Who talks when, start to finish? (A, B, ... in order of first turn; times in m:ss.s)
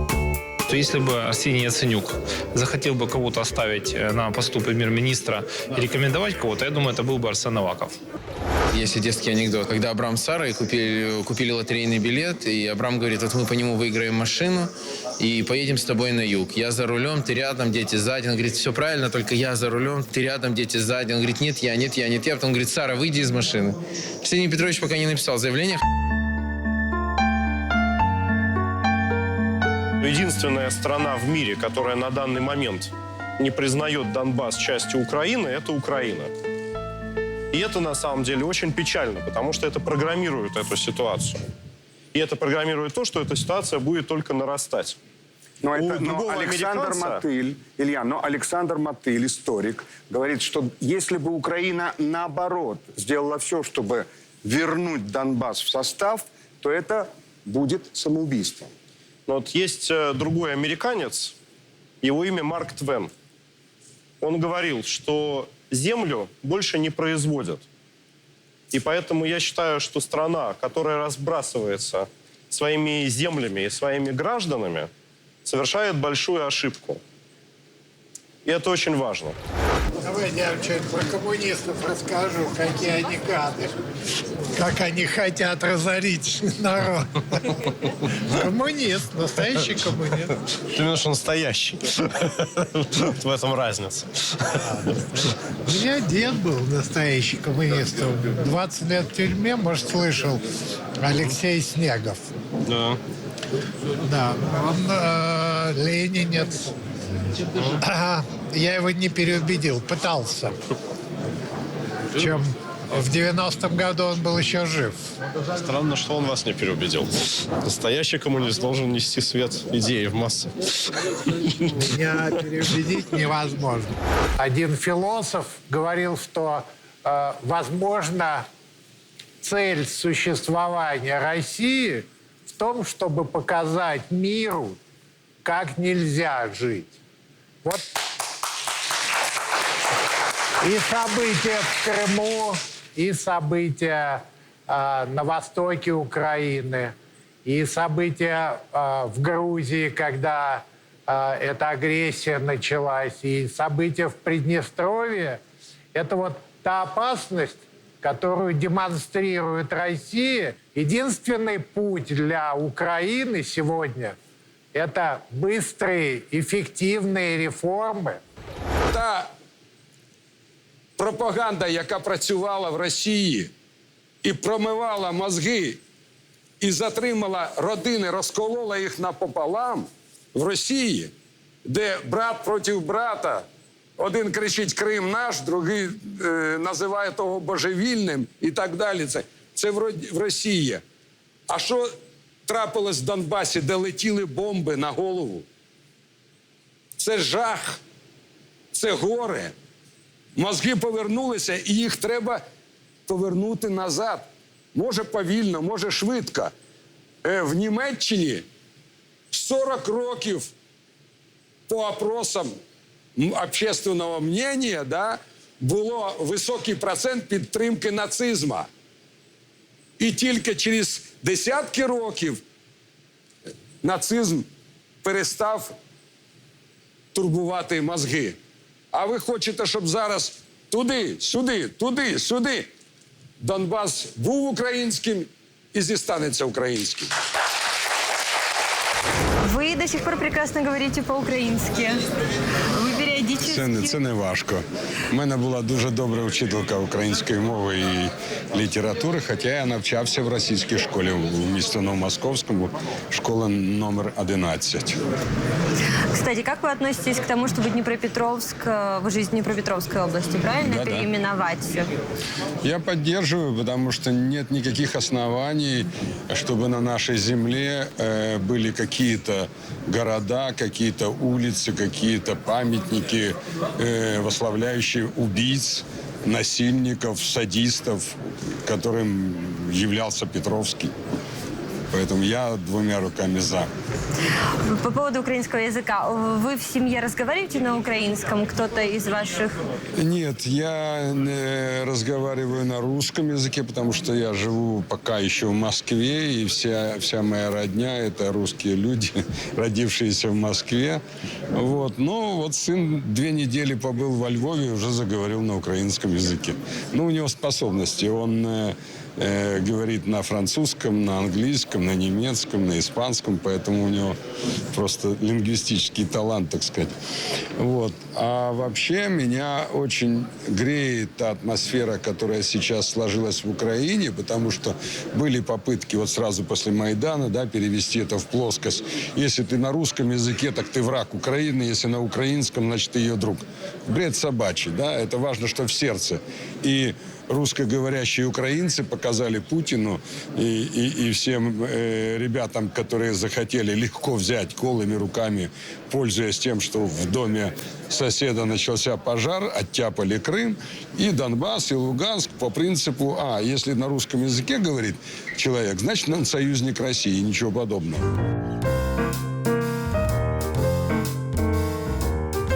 0:00.7-0:08.0 A
0:08.7-0:25.8 B
0:30.0-0:36.3 C
0:37.5-0:41.4 C
0:42.1-0:45.0 C
0:45.6-0:58.7 D
0:45.8-0:47.2 C
0:59.3-1:01.3 C
1:02.0-1:03.1 C
1:04.2-1:07.6 C
1:08.7-1:14.9 C
1:15.5-1:17.0 C
1:18.4-1:19.4 C
1:20.0-1:23.8 E
1:24.5-1:27.6 E
1:28.3-1:30.4 E
1:30.7-1:31.7 C
1:33.2-1:34.0 C
1:35.6-1:40.4 E
1:41.0-1:42.3 E
1:42.6-1:43.0 C
1:44.0-1:46.7 E
1:47.8-1:50.6 E
1:52.2-1:55.0 E
1:55.6-1:57.1 C
1:57.6-2:00.5 C
2:01.8-2:08.5 E
2:09.4-2:12.1 E
2:12.6-2:14.8 E
2:15.4-2:16.9 E
2:17.6-2:17.9 E
2:20.6-2:35.4 E
2:35.9-2:44.2 E
2:44.7-2:48.2 E
2:48.9-2:49.3 F
2:51.0-2:53.5 F
2:54.2-2:55.8 F
2:56.6-3:01.1 F
3:01.6-3:03.5 F
3:04.0-3:10.8 F
3:11.5-3:15.4 F
3:17.0-3:17.8 F
3:18.7-3:19.5 F
3:20.4-3:22.4 F
3:23.1-3:26.5 F
3:27.2-3:28.4 F
3:29.3-3:30.5 F
3:31.7-3:32.6 F
3:33.2-3:38.7 F
3:40.0-3:42.4 F
3:43.8-3:44.5 F
3:45.0-3:45.7 F
3:47.1-3:48.4 F
3:48.9-3:52.7 F
3:53.4-3:57.1 F
3:59.4-4:02.0 G
4:02.8-4:04.0 G
4:03.4-4:15.0 H
4:16.1-4:21.9 G
4:20.6-4:21.1 H
4:22.6-4:40.9 H
4:41.9-4:43.7 H
4:44.6-4:49.6 G
4:50.0-5:01.0 H
5:01.5-5:14.2 H
5:14.7-5:16.9 H
5:17.6-5:58.0 H